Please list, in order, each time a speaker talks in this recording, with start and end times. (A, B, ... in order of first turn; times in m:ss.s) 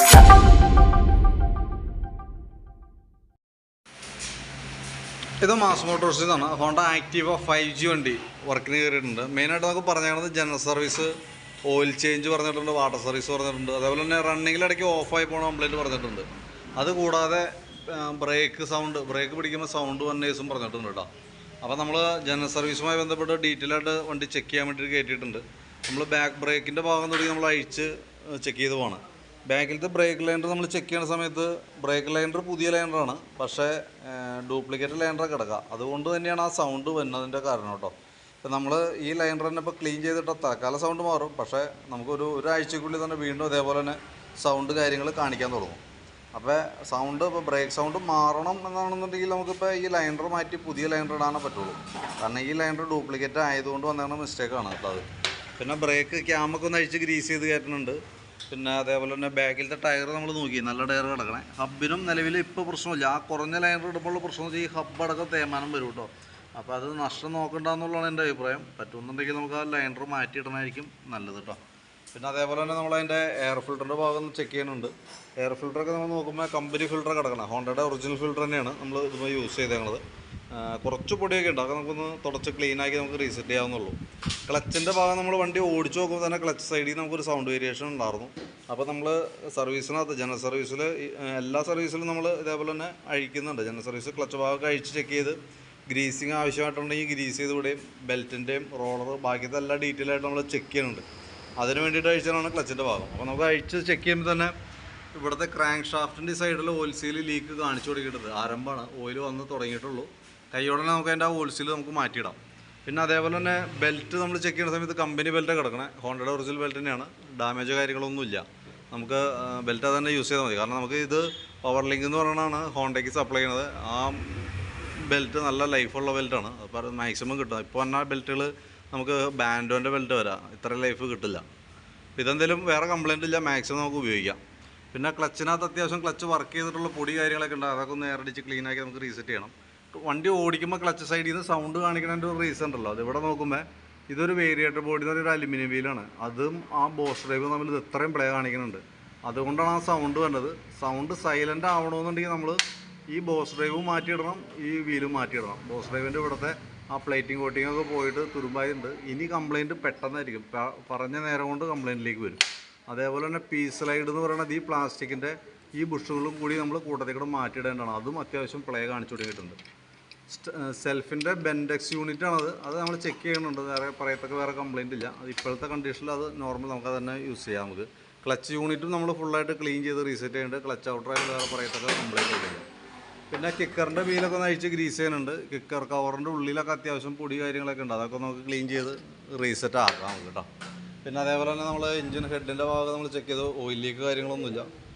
0:05.4-0:11.1 A
0:11.6-0:21.1 A
0:21.6-0:45.8 A
0:46.3-0:55.0 A
0:55.6-1:11.6 A
1:12.1-1:41.0 A
1:41.6-1:44.5 A
1:45.1-2:11.4 A
2:12.2-2:14.4 A
2:14.9-2:32.6 A
2:33.1-2:49.6 A
2:50.3-3:02.6 A
3:03.3-3:10.5 A
3:11.0-3:14.7 A